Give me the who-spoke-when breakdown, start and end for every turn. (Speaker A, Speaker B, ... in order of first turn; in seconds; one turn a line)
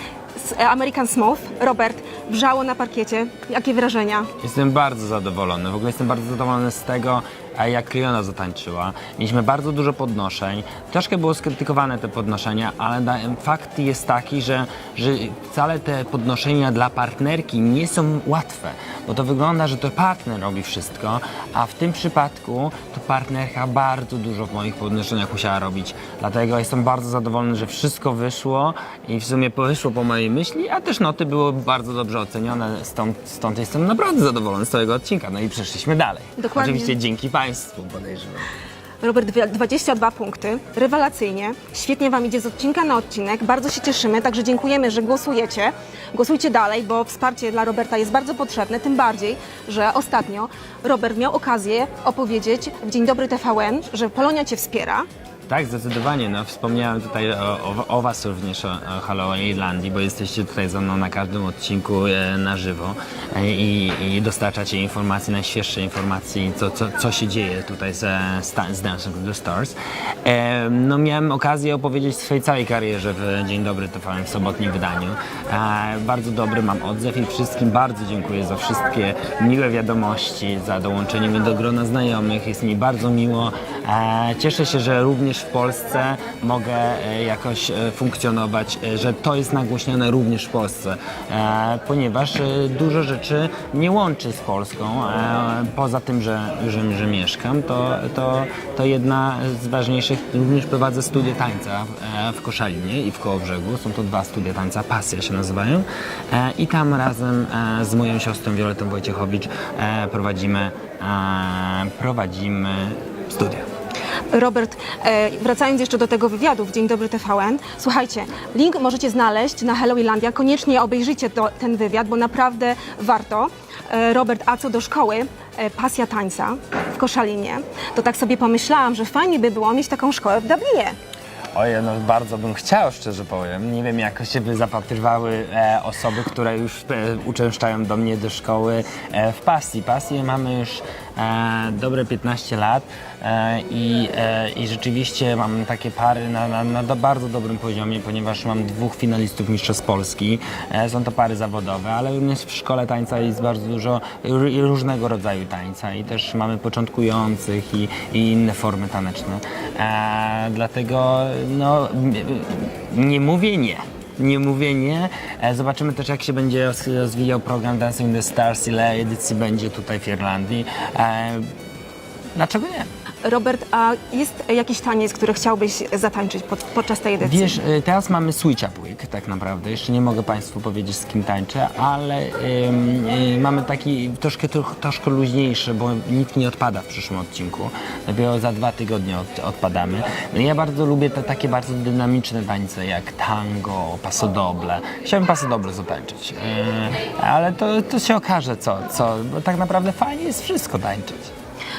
Speaker A: 0.3-4.3
Speaker B: 4.4-38.5
Speaker A: 36.4-37.0
Speaker A: 39.0-55.0
Speaker B: 55.5-113.7
Speaker A: 114.3-130.9
Speaker B: 131.5-171.4
Speaker B: 172.3-172.9
Speaker A: 173.2-177.6
Speaker B: 177.2-201.3